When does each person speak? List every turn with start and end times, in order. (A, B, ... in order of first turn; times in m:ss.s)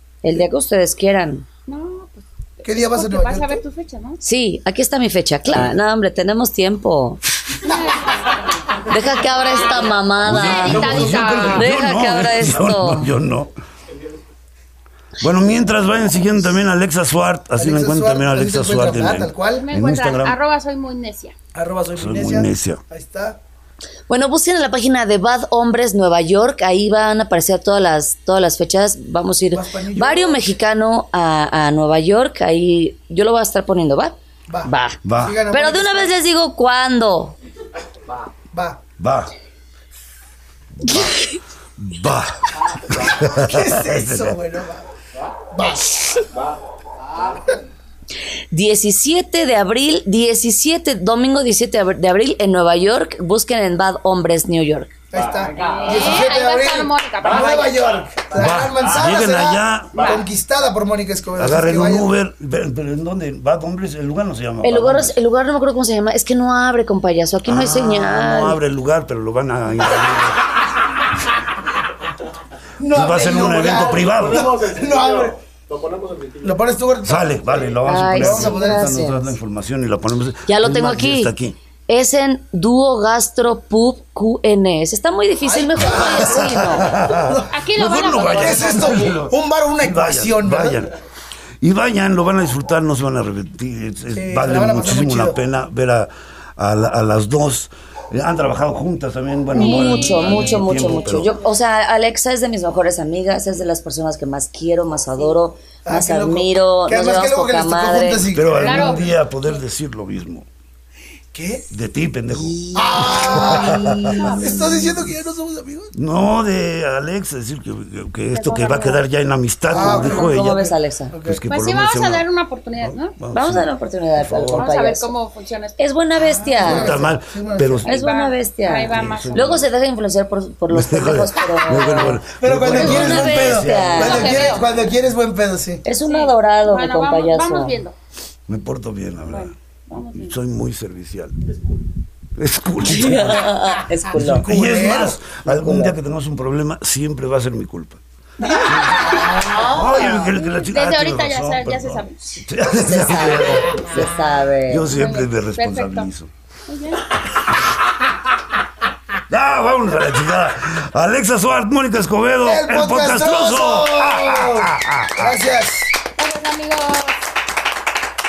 0:00.2-0:01.4 A
0:01.7-0:04.2 B
0:02.6-0:03.6 C
0:04.2-0:07.2 A
0:07.6-0:08.7 B
0:08.9-0:13.1 A
0:10.2-0:13.5 D
0:10.2-0:11.7 B
0:15.2-0:20.4 D
0:17.5-0:19.6 C
0:19.5-0:21.3 B
0:21.5-0:23.4 C
0:21.9-0:22.8 D
0:24.1-0:37.3 A
0:29.5-0:30.5 C
0:34.5-0:36.2 C
0:35.0-0:35.4 D
0:38.5-0:38.8 C
0:39.0-0:39.3 D
0:40.8-0:44.4 D
0:43.3-0:44.9 C
0:45.5-0:46.2 C
0:46.3-0:47.6 E
0:48.5-0:54.9 A
0:55.1-0:56.2 E
0:55.1-1:02.1 C
0:55.7-0:57.8 B
0:57.2-0:59.2 E
0:58.4-1:00.2 D
0:59.9-1:00.2 E
1:01.4-1:05.2 D
1:04.6-1:08.6 A
1:07.4-1:10.5 D
1:12.8-1:15.4 C
1:12.9-1:14.5 D
1:13.9-1:16.6 E
1:16.4-1:19.0 C
1:17.0-1:21.6 D
1:17.8-1:19.4 A
1:20.5-1:21.3 A
1:21.9-1:26.9 A
1:25.4-1:27.5 C
1:25.9-1:30.9 D
1:27.5-1:29.1 B
1:28.3-1:30.9 C
1:31.6-1:41.3 D
1:34.1-1:35.4 C
1:39.5-1:41.2 B
1:39.5-1:48.3 A
1:45.8-1:49.1 C
1:48.3-1:50.5 D
1:48.6-1:49.6 B
1:51.3-1:51.7 C
1:51.7-1:54.2 D
1:52.4-1:54.7 A
1:52.7-1:55.9 C
1:54.2-1:54.9 B
1:55.9-2:02.2 D
1:58.3-1:59.0 B
1:59.7-2:00.4 C
1:59.7-2:01.1 A
2:01.1-2:01.4 C
2:01.5-2:03.2 B
2:02.8-2:04.7 D
2:03.3-2:05.1 A
2:04.6-2:05.9 B
2:05.8-2:07.0 A
2:06.1-2:07.8 C
2:06.6-2:07.9 D
2:07.8-2:09.6 B
2:07.8-2:14.5 A
2:08.9-2:09.7 D
2:10.7-2:14.6 D
2:12.4-2:15.8 C
2:14.0-2:14.7 B
2:15.8-2:17.8 A
2:16.0-2:18.0 B
2:18.5-2:19.5 D
2:19.2-2:20.4 B
2:20.1-2:21.4 D
2:22.4-2:23.6 D
2:22.8-2:24.5 A
2:24.1-2:34.1 D
2:24.2-2:25.2 C
2:25.4-2:25.9 A
2:28.4-2:32.4 B
2:32.7-2:34.9 A
2:34.7-2:36.3 D
2:34.9-2:36.1 B
2:36.7-2:37.1 B
2:39.3-2:45.3 D
2:42.4-2:45.9 C
2:46.2-2:47.2 B